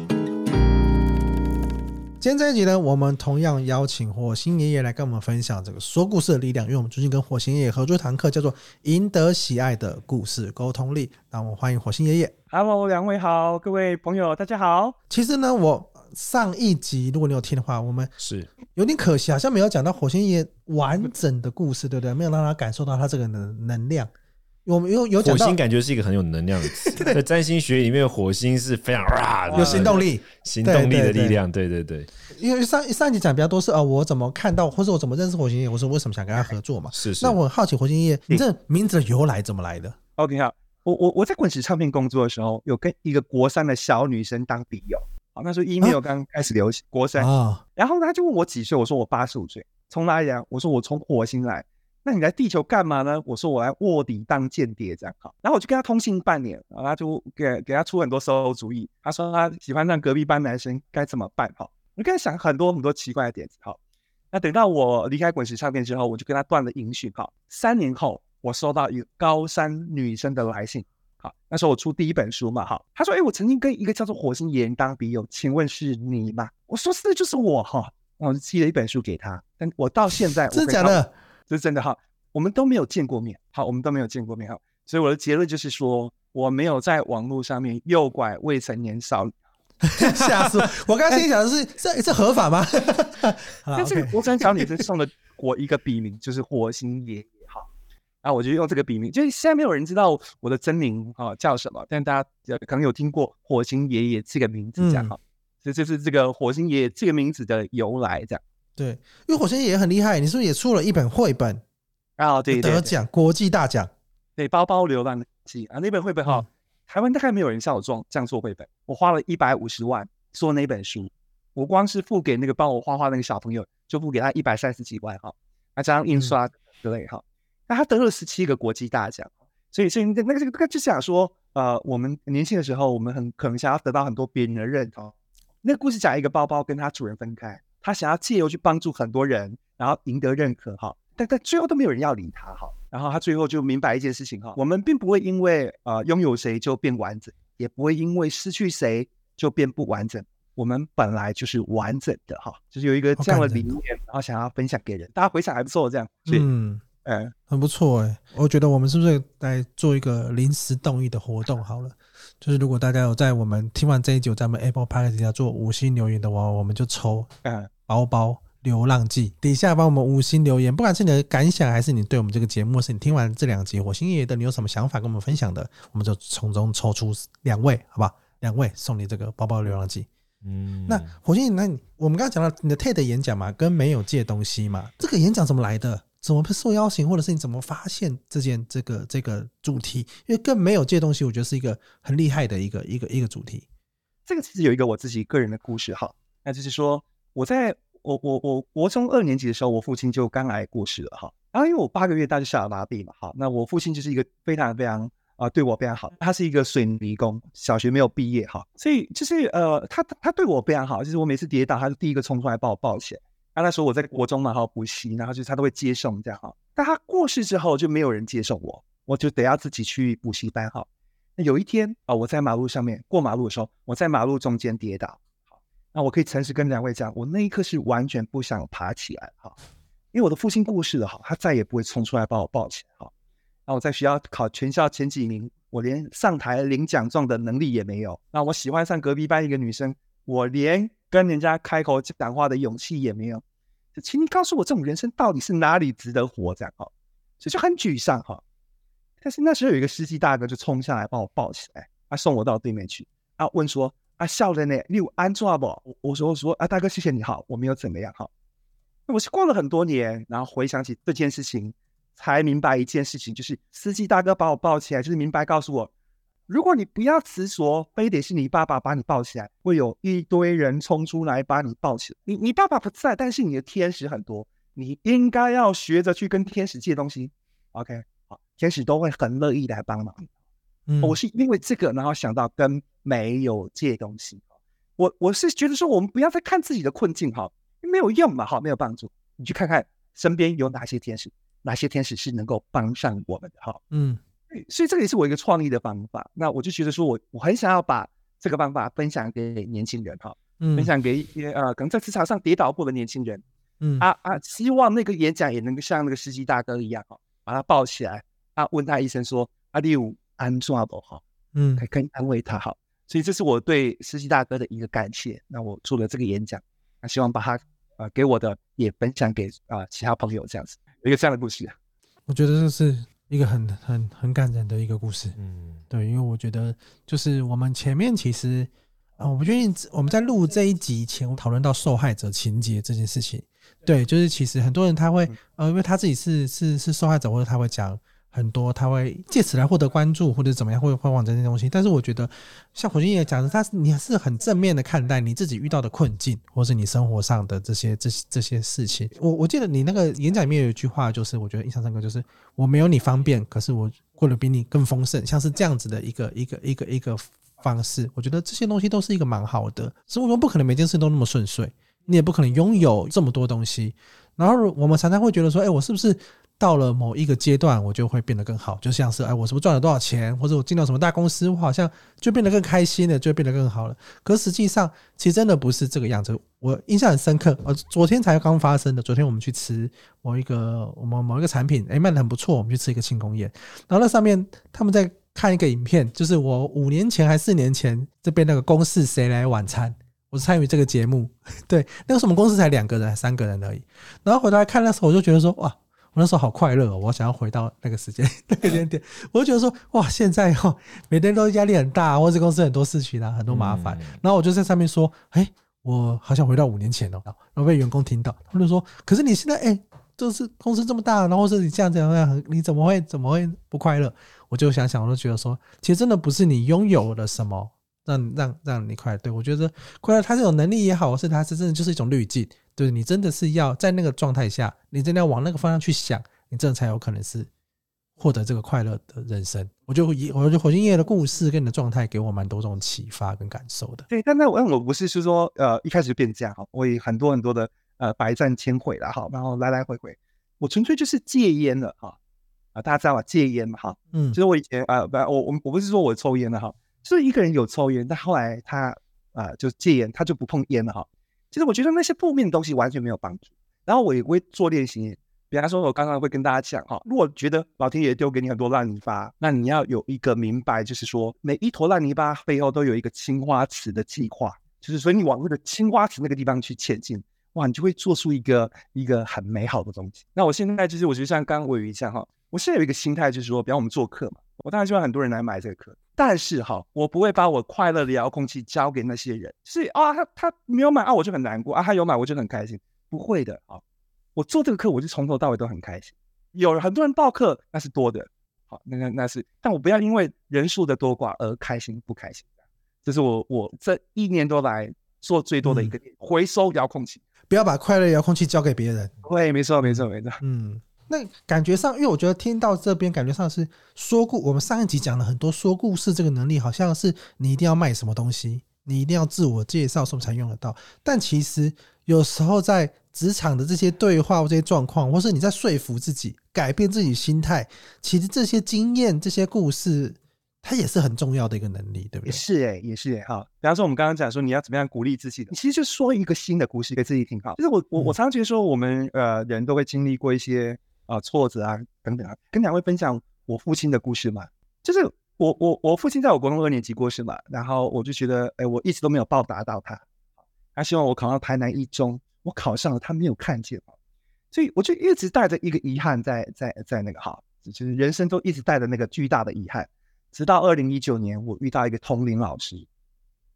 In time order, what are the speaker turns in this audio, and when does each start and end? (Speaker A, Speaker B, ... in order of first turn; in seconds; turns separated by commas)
Speaker A: 2.2-12.3, Speaker B: 12.5-14.9, Speaker A: 15.1-18.1, Speaker C: 18.2-18.5, Speaker A: 18.7-24.1, Speaker A: 24.6-25.6, Speaker C: 25.2-32.1, Speaker A: 26.8-27.2, Speaker A: 29.5-31.4, Speaker A: 32.3-40.0, Speaker C: 36.9-37.4, Speaker B: 40.2-63.8, Speaker A: 47.2-47.6, Speaker B: 64.3-81.0, Speaker A: 80.5-81.1, Speaker B: 81.5-89.3, Speaker A: 89.8-94.8, Speaker B: 93.8-97.7, Speaker B: 98.2-108.4, Speaker A: 104.8-105.1, Speaker A: 108.8-111.6, Speaker B: 112.2-112.9, Speaker A: 112.5-113.9, Speaker B: 114.4-156.5, Speaker A: 153.2-153.8, Speaker A: 156.3-156.8, Speaker B: 157.0-157.3, Speaker A: 157.5-167.3, Speaker B: 167.4-167.7, Speaker A: 167.9-180.1, Speaker C: 180.4-181.1, Speaker A: 180.9-193.7, Speaker B: 194.3-225.2, Speaker B: 225.9-229.6, Speaker B: 230.1-233.1, Speaker B: 233.7-243.4, Speaker B: 243.9-246.9, Speaker B: 247.4-248.4, Speaker B: 249.2-258.3, Speaker B: 259.1-265.9, Speaker B: 266.5-280.3, Speaker A: 280.9-281.2, Speaker B: 281.0-284.4, Speaker B: 285.0-293.8, Speaker A: 293.9-294.2, Speaker B: 294.5-303.4, Speaker A: 300.6-300.9, Speaker A: 303.8-304.1, Speaker B: 304.0-311.2, Speaker A: 311.5-311.8, Speaker B: 311.8-321.7, Speaker A: 322.3-325.4, Speaker C: 325.4-325.8, Speaker A: 325.9-427.5, Speaker C: 403.5-404.1, Speaker A: 428.2-434.1, Speaker B: 434.1-442.2, Speaker B: 442.7-483.8, Speaker A: 444.1-444.4, Speaker B: 484.4-492.4, Speaker B: 493.0-497.2, Speaker A: 495.6-495.9, Speaker A: 497.5-499.1, Speaker B: 499.2-500.4, Speaker A: 499.8-522.4, Speaker B: 522.2-540.0, Speaker B: 540.8-543.9, Speaker B: 544.5-552.9